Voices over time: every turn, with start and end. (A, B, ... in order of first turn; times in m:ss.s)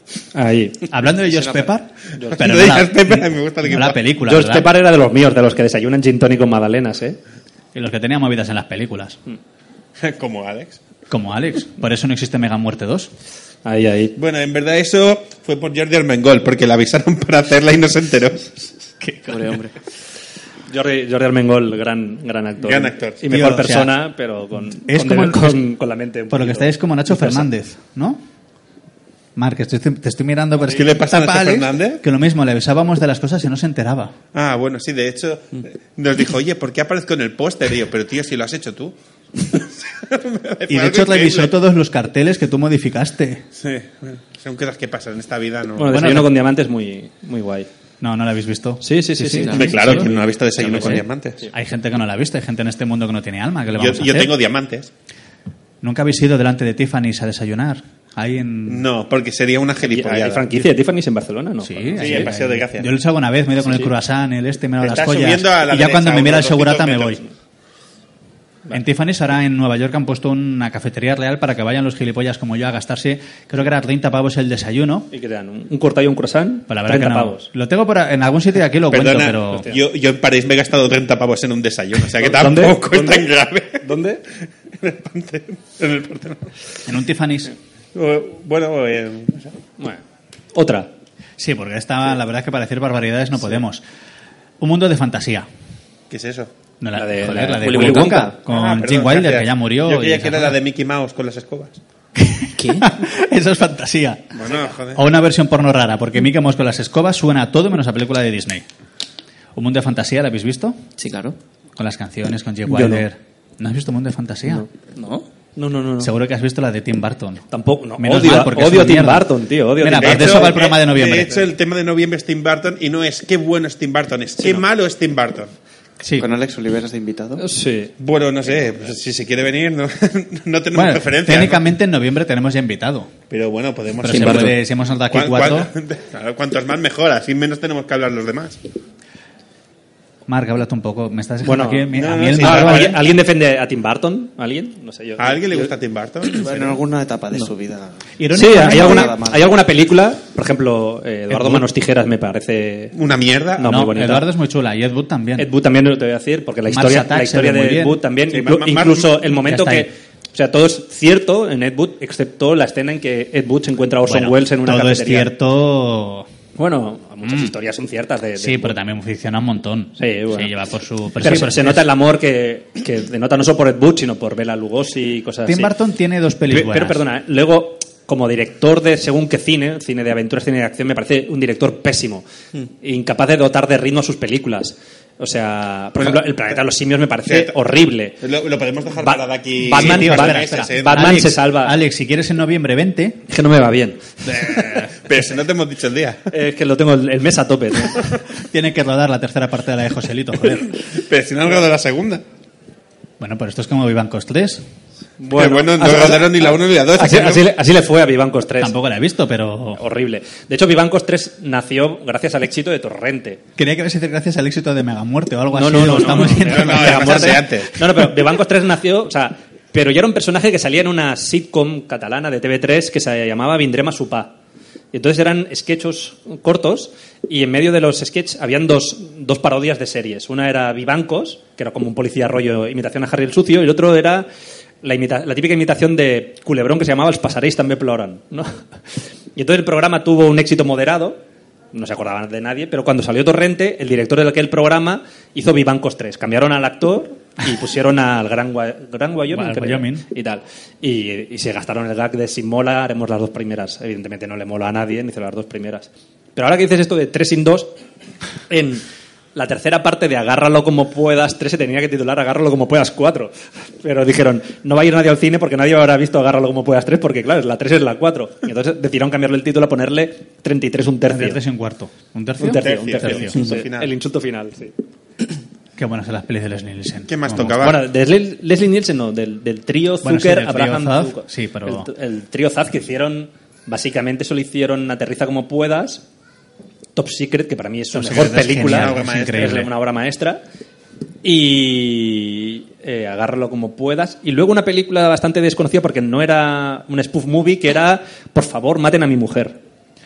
0:00.3-0:00.9 A
0:00.9-0:04.7 B
0:02.2-0:02.6 A
0:02.3-0:04.0 C
0:04.3-0:07.2 A
0:07.7-0:09.2 B
0:10.0-0:10.8 C
0:11.1-0:13.1 B
0:13.6-0:14.1 A
0:14.2-0:18.5 C
0:19.0-0:19.6 B
0:19.3-0:19.7 D
0:20.7-0:27.5 A
0:22.6-0:23.2 C
0:23.3-0:24.0 B
0:24.8-0:25.6 B
0:26.3-0:28.2 B
0:29.4-0:34.1 B
0:30.6-0:32.0 C
0:34.3-0:41.5 C
0:40.7-0:43.4 B
0:43.6-0:46.1 C
0:45.8-0:47.7 A
0:45.9-0:46.3 B
0:48.0-0:54.4 B
0:48.8-0:51.5 A
0:49.4-0:49.9 D
0:49.5-0:51.4 C
0:53.8-0:54.9 C
0:55.8-0:58.8 B
0:58.7-1:00.6 C
0:59.8-1:02.3 A
1:01.6-1:07.2 B
1:02.0-1:02.9 C
1:04.8-1:07.2 C
1:08.7-1:15.1 B
1:15.1-1:17.5 A
1:16.7-1:19.7 B
1:18.9-1:23.8 C
1:19.5-1:19.8 A
1:22.2-1:24.2 A
1:24.8-1:26.5 C
1:26.8-1:27.5 B
1:27.9-1:29.6 C
1:30.5-1:30.9 A
1:31.4-1:33.8 B
1:34.6-1:35.5 B
1:36.1-1:36.5 C
1:36.8-1:40.6 B
1:36.9-1:38.3 A
1:37.6-1:38.2 D
1:38.5-1:41.8 C
1:42.2-1:44.4 B
1:42.6-1:42.8 D
1:44.3-1:45.0 C
1:44.4-1:44.7 A
1:44.9-1:48.6 B
1:49.5-1:50.8 B
1:51.0-1:51.4 D
1:51.8-1:54.6 B
1:52.7-1:53.0 A
1:55.0-1:55.2 D
1:55.6-1:56.1 A
1:56.0-1:57.4 B
1:57.5-2:00.6 A
1:58.0-2:01.4 B
1:59.9-2:05.5 C
2:04.4-2:04.6 A
2:06.0-2:06.3 B
2:06.2-2:07.4 E
2:07.4-2:07.9 A
2:08.0-2:11.6 C
2:10.7-2:13.1 B
2:13.3-2:14.6 C
2:14.0-2:15.7 B
2:14.1-2:14.5 D
2:15.1-2:18.6 C
2:20.3-2:23.0 B
2:21.4-2:25.7 A
2:21.9-2:23.0 C
2:25.2-2:26.8 C
2:26.4-2:29.5 E
2:28.2-2:29.1 B
2:28.3-2:32.9 A
2:31.3-2:31.6 B
2:32.9-2:33.8 C
2:33.6-2:34.3 A
2:33.6-2:35.5 B
2:35.4-2:45.3 A
2:36.7-2:38.0 B
2:38.3-2:39.2 C
2:39.3-2:39.9 B
2:44.0-2:46.3 B
2:46.6-2:48.8 A
2:47.2-2:47.5 B
2:48.4-2:51.9 B
2:50.0-2:50.5 A
2:51.2-2:55.7 A
2:55.4-2:57.0 B
2:56.5-3:02.2 A
3:02.8-3:08.2 A
3:06.0-3:06.2 C
3:07.3-3:07.5 C
3:08.2-3:11.2 C
3:09.0-3:11.8 A
3:09.7-3:13.2 B
3:13.3-3:14.8 A
3:15.0-3:16.2 C
3:16.3-3:18.0 A
3:18.4-3:20.7 B
3:20.9-3:22.2 C
3:23.2-3:24.6 B
3:25.2-3:28.7 A
3:25.3-3:27.5 C
3:28.6-3:29.8 B
3:29.8-3:33.4 A
3:33.6-3:37.6 B
3:35.5-3:44.3 A
3:36.1-3:37.7 C
3:44.9-3:54.3 A
3:54.8-3:58.6 A
3:59.4-4:01.2 A
4:01.7-4:17.7 A
4:09.3-4:10.0 B
4:18.5-4:18.8 A
4:19.3-4:31.4 A
4:31.1-4:33.3 B
4:32.4-4:34.7 A
4:32.5-4:33.9 C
4:35.8-4:37.7 B
4:37.1-4:37.8 C
4:37.6-4:46.0 A
4:40.0-4:41.9 B
4:47.0-4:50.4 A
4:47.9-4:49.7 B
4:48.6-4:49.7 C
4:51.2-4:59.6 A